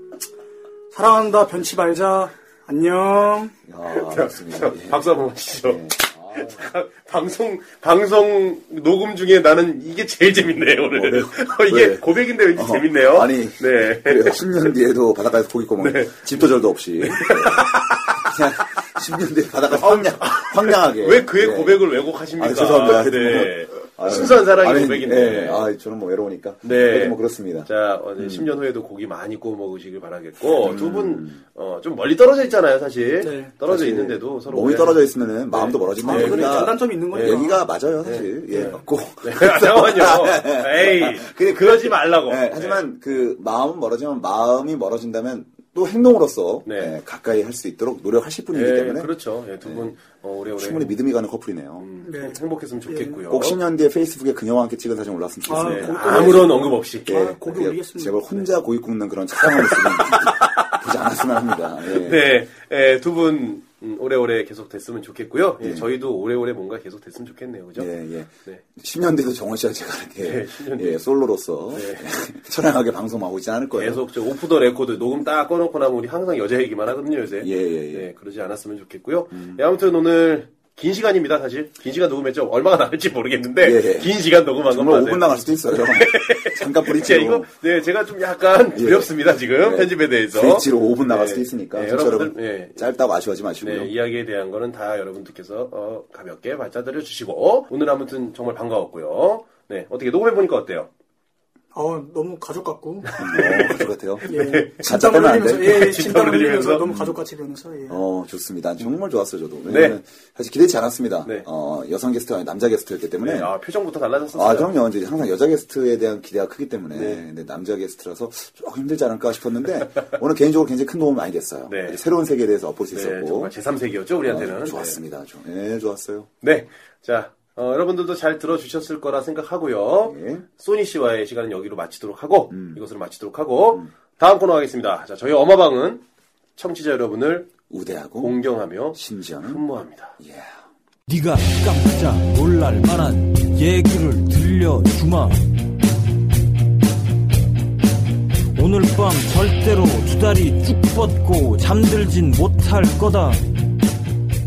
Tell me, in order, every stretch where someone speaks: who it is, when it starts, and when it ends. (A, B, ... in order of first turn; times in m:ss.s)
0:00.9-0:03.5 A
0:03.7-0:05.0 B
0:03.9-0:14.6 C
0:05.6-0:06.6 B
0:10.9-0:21.8 B
0:15.8-0:16.3 C
0:17.0-0:18.3 C
0:19.8-0:25.7 C
0:22.4-0:28.5 B
0:26.6-0:37.4 C
0:30.4-0:31.4 B
0:33.2-0:33.5 A
0:33.7-0:49.1 B
0:36.0-0:37.6 A
0:38.0-0:42.8 C
0:46.7-0:47.0 C
0:48.5-0:51.0 C
0:49.6-0:49.9 B
0:50.6-0:51.9 B
0:51.8-0:53.6 C
0:52.0-0:53.2 A
0:53.3-0:56.5 B
0:55.5-0:58.3 A
0:55.6-0:57.2 C
0:57.1-1:02.3 B
0:59.5-1:00.8 C
1:01.9-1:07.9 C
1:07.8-1:14.0 B
1:10.2-1:11.0 C
1:11.7-1:12.1 C
1:13.7-1:32.9 C
1:17.4-1:18.1 B
1:19.3-1:19.6 B
1:23.6-1:24.1 B
1:24.6-1:27.5 B
1:28.7-1:33.9 B
1:33.6-1:40.9 C
1:41.7-1:43.5 A
1:43.1-1:44.8 C
1:43.2-1:46.0 B
1:44.3-1:48.0 A
1:45.6-1:46.9 C
1:46.8-1:47.2 B
1:47.9-1:53.5 B
1:49.7-1:50.0 C
1:53.2-1:54.8 C
1:54.3-2:03.5 B
1:56.9-1:57.2 C
2:01.7-2:02.0 C
2:02.9-2:05.0 C
2:04.2-2:06.3 B
2:06.4-2:16.0 C
2:10.0-2:10.4 B
2:12.5-2:12.8 B
2:16.6-2:17.5 C
2:17.7-2:18.4 B
2:18.2-2:20.2 C
2:18.9-2:19.6 B
2:20.2-2:20.6 B
2:21.1-2:25.5 D
2:28.6-2:33.4 D